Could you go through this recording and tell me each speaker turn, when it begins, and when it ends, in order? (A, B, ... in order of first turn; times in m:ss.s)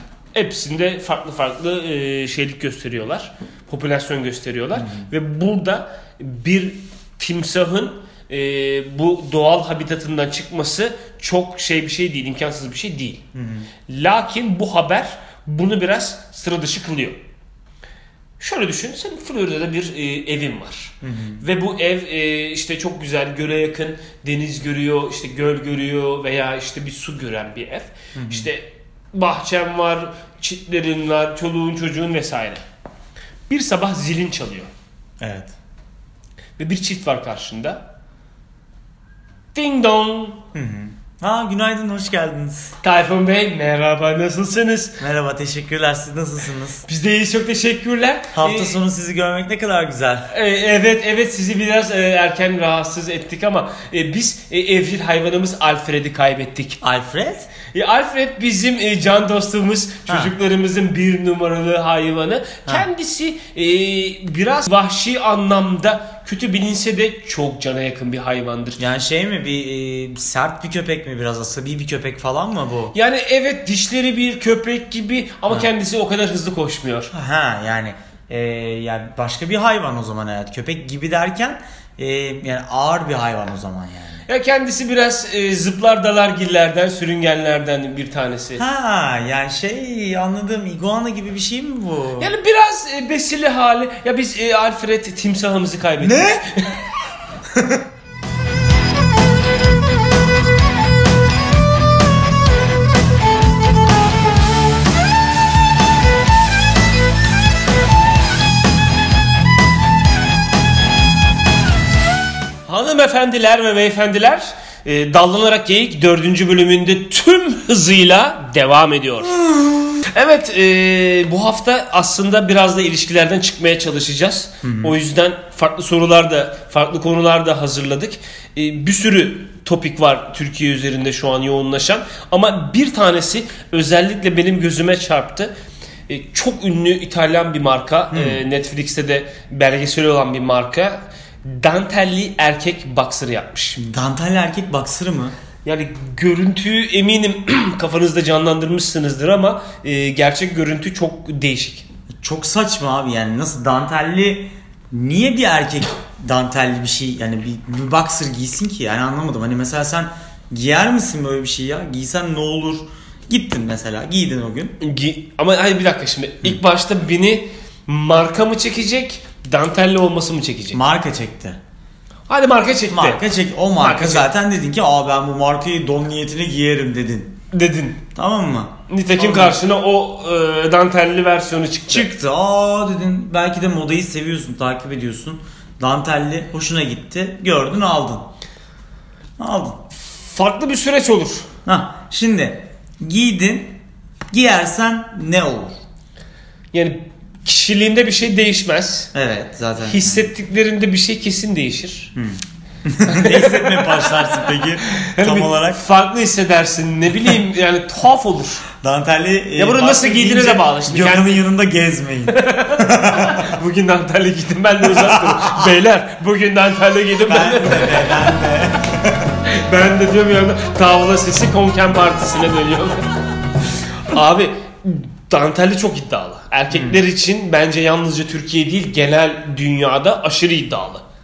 0:00.3-0:13.2 A
0:04.8-0:05.1 B
0:13.3-0:13.7 B
0:13.9-0:17.2 A
0:18.4-0:32.6 A
0:21.0-0:21.4 B
0:28.1-0:28.5 B
0:33.5-0:34.7 A
0:35.2-0:35.5 B
0:36.6-0:37.8 A
0:39.5-0:40.4 A
0:40.5-0:42.8 B
0:42.8-0:45.0 A
0:45.0-0:46.8 B
0:46.8-0:48.8 A
0:48.3-0:50.3 B
0:50.3-0:56.8 A
0:56.8-0:57.5 B
0:57.7-1:08.8 A
1:00.1-1:00.3 B
1:08.8-1:12.9 B
1:12.9-1:17.1 A
1:17.1-1:24.2 B
1:24.3-1:28.6 A
1:28.6-1:32.3 B
1:32.2-1:36.8 A
1:36.0-1:36.4 B
1:37.5-1:37.8 B
1:52.7-1:59.4 A
1:59.4-1:59.8 B
2:00.0-2:15.5 A
2:04.6-2:05.0 B
2:16.1-2:23.8 A
2:18.1-2:18.4 B
2:23.8-2:25.3 B
2:25.6-2:31.9 A
2:32.2-2:44.8 B
2:44.8-2:50.8 A
2:50.7-2:51.6 B
2:52.3-2:53.2 A
2:52.9-2:57.4 B
2:53.8-2:54.3 A
2:57.5-2:58.0 A
2:58.1-2:59.6 B
2:58.9-3:02.1 A
3:01.9-3:08.3 B
3:09.4-3:09.8 B
3:10.1-3:11.5 A
3:11.6-3:13.8 B
3:14.3-3:15.8 B
3:16.7-3:19.1 A
3:19.1-3:20.3 B
3:19.8-3:22.1 A
3:22.1-3:25.8 B
3:23.0-3:28.6 A
3:28.8-3:33.5 B
3:29.6-3:31.5 A
3:32.3-3:38.1 A
3:34.8-3:35.7 B
3:37.2-3:39.3 B
3:39.5-3:43.1 A
3:44.0-3:51.0 A
3:46.7-3:47.0 B